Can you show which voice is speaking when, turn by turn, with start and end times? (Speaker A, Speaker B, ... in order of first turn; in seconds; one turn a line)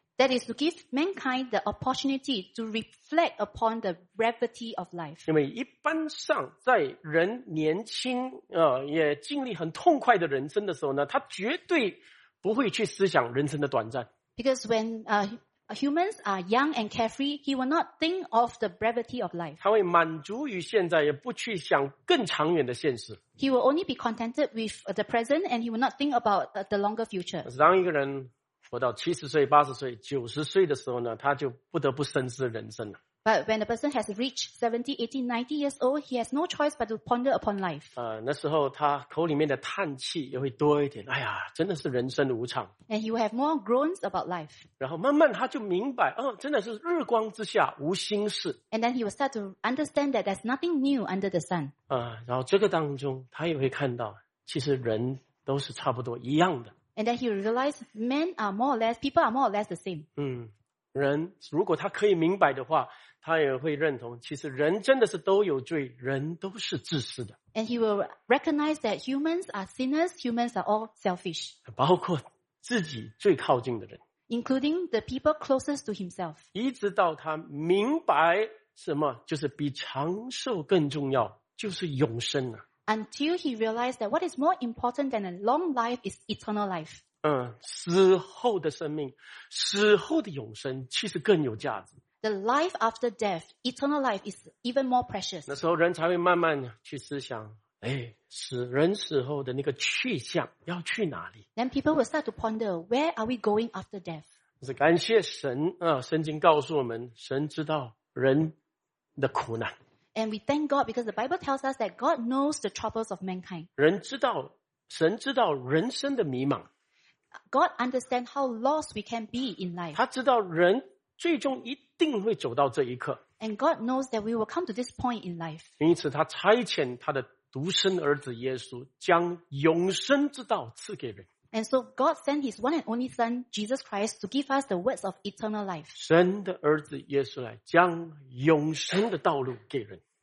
Speaker A: 0.2-5.3
Speaker B: 5.3-14.1
Speaker A: 14.4-19.6
Speaker B: 19.6-23.2
Speaker A: 23.4-27.5
Speaker B: 27.4-33.0
Speaker A: 33.2-37.9
Speaker B: 38.0-42.7
Speaker A: 42.9-44.7
Speaker B: 44.8-48.6
Speaker A: 48.7-51.7
Speaker B: 51.9-56.7
Speaker A: 57.0-60.1
Speaker B: 60.2-67.4
Speaker A: 67.5-71.6
Speaker B: 71.7-74.0
Speaker A: 74.3-76.4
Speaker B: 76.5-82.6
Speaker A: 82.9-87.0
Speaker B: 87.2-91.9
Speaker A: 92.2-95.5
Speaker B: 95.5-101.4
Speaker A: 101.6-104.2
Speaker B: 104.6-108.5
Speaker B: 109.2-109.7
Speaker A: 110.2-113.7
Speaker B: 113.8-116.7
Speaker A: 117.5-120.0
Speaker B: 120.0-123.2
Speaker A: 123.4-125.7
Speaker B: 125.8-131.3
Speaker A: 131.5-135.9
Speaker B: 135.9-140.0